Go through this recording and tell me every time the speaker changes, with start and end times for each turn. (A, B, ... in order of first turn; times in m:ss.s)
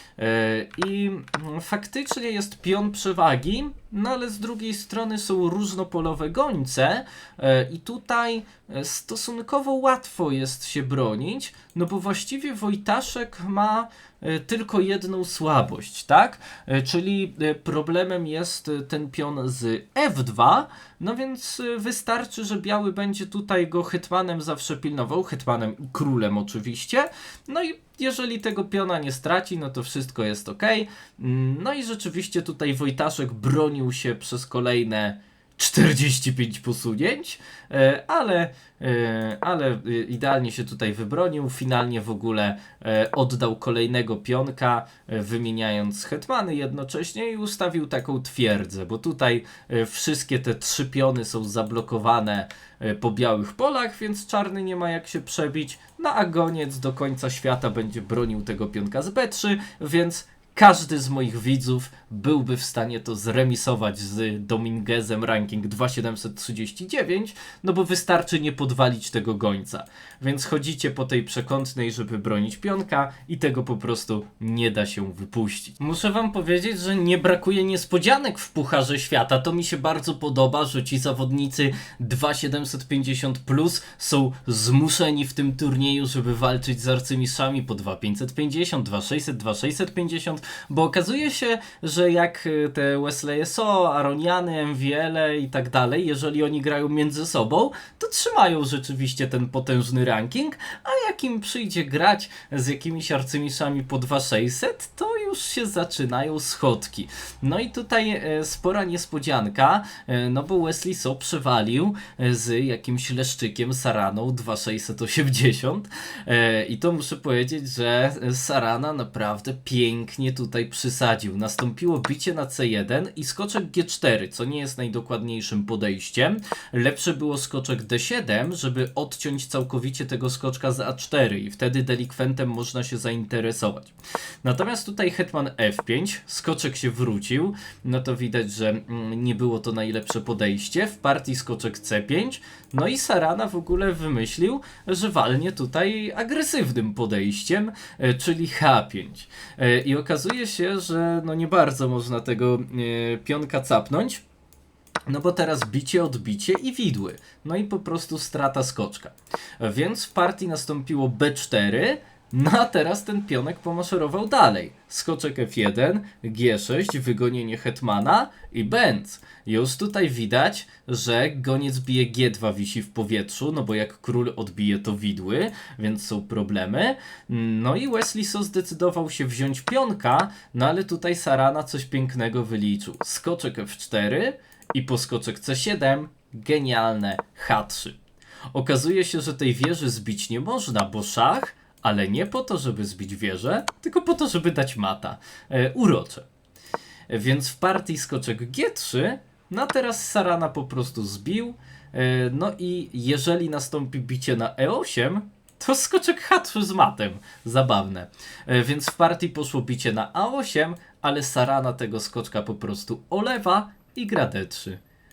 0:00.2-2:34.2 A
2:35.1-3:08.0 A
3:08.5-3:16.3 A
3:17.1-3:34.8 A